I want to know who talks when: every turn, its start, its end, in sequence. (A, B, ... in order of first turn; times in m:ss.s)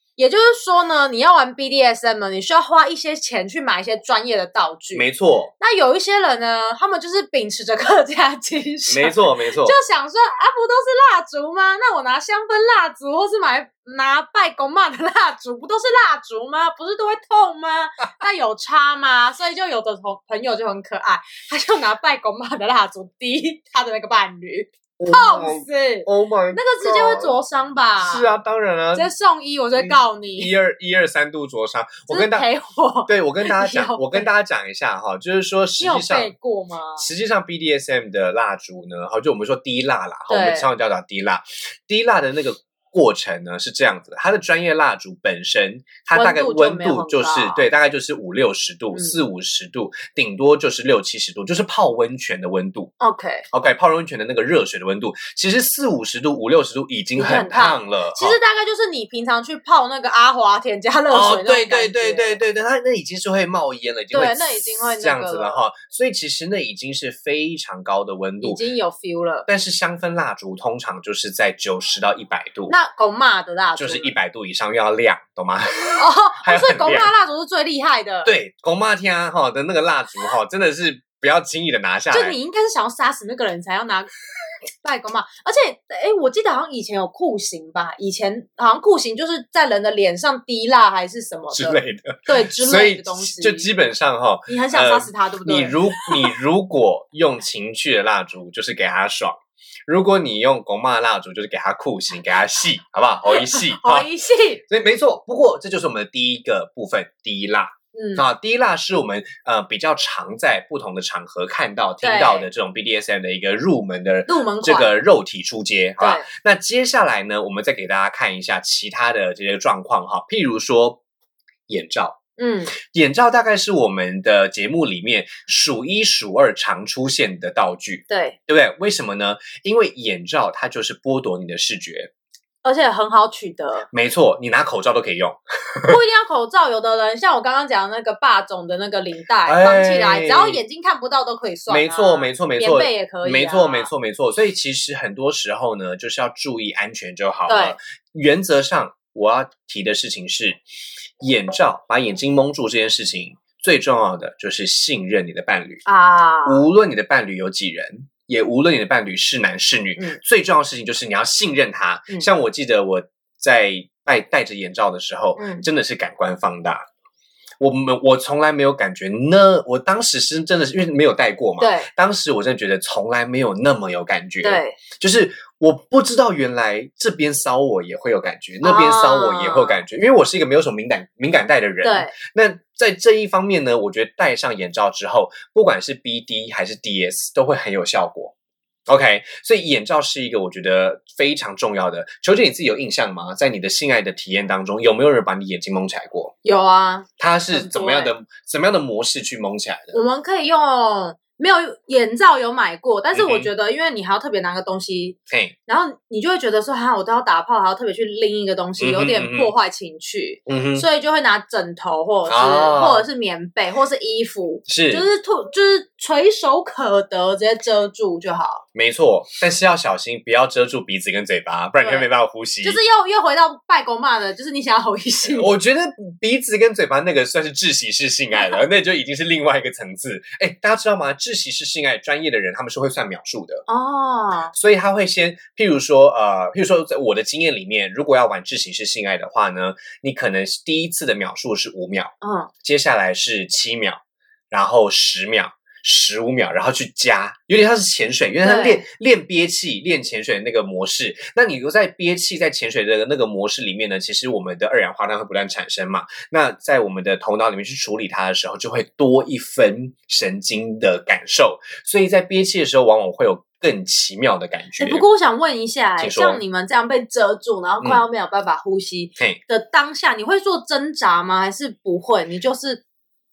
0:00.2-0:05.1 A
0:04.9-0:05.5 B
0:05.6-0:28.3 A
0:08.9-0:09.8 B
0:25.0-0:27.4 B
0:28.0-0:29.1 B
0:28.9-0:30.5 A
0:29.8-0:32.5 B
0:32.1-0:34.3 A
0:33.1-0:36.3 B
0:35.8-0:37.1 A
0:37.0-0:52.9 B
0:40.3-0:40.7 A
0:46.1-0:47.6 A
0:48.9-0:49.2 A
0:53.0-0:53.5 A
0:53.5-0:58.4 B
0:57.2-1:02.4 A
1:01.1-1:08.6 B
1:04.1-1:05.6 A
1:08.4-1:09.5 A
1:09.5-1:12.8 B
1:12.7-1:14.2 A
1:13.8-1:17.1 B
1:16.0-1:18.3 A
1:18.2-1:22.4 B
1:22.1-1:24.1 A
1:24.8-1:33.7 A
1:31.5-1:44.1 B
1:34.5-1:36.3 A
1:43.3-1:44.6 A
1:44.7-2:01.0 B
1:47.9-1:48.3 A
1:52.0-1:52.5 A
1:54.3-1:54.9 A
1:56.0-1:56.3 A
2:01.7-2:02.2 B
2:02.4-2:02.7 A
2:02.8-2:12.1 B
2:08.1-2:08.4 A
2:12.6-2:13.9 A
2:13.9-2:16.0 B
2:15.9-2:23.9 A
2:19.5-2:20.6 B
2:21.7-2:30.6 B
2:27.5-2:27.8 A
2:31.2-2:35.8 B
2:35.9-2:36.6 A
2:36.4-2:46.8 B
2:45.4-2:45.7 A
2:47.6-3:08.3 B
2:51.6-2:51.9 A
2:54.4-2:54.8 A
2:58.6-2:59.8 A
3:01.8-3:02.1 A
3:08.9-3:16.3 B
3:16.4-3:18.1 A
3:17.2-3:20.0 B
3:19.9-3:38.6 A
3:23.1-3:23.5 B
3:25.3-3:25.6 B
3:28.8-3:29.5 B
3:30.5-3:30.9 B
3:32.3-3:33.0 B
3:34.7-3:35.1 B
3:38.7-3:42.8 B
3:41.8-3:42.1 A
3:42.6-3:45.5 A
3:45.3-3:53.6 B
3:53.7-3:54.5 A
3:54.5-4:04.0 B
4:02.2-4:02.5 A
4:04.5-4:25.1 B
4:08.4-4:08.8 A
4:24.8-4:32.8 A
4:26.0-4:26.4 B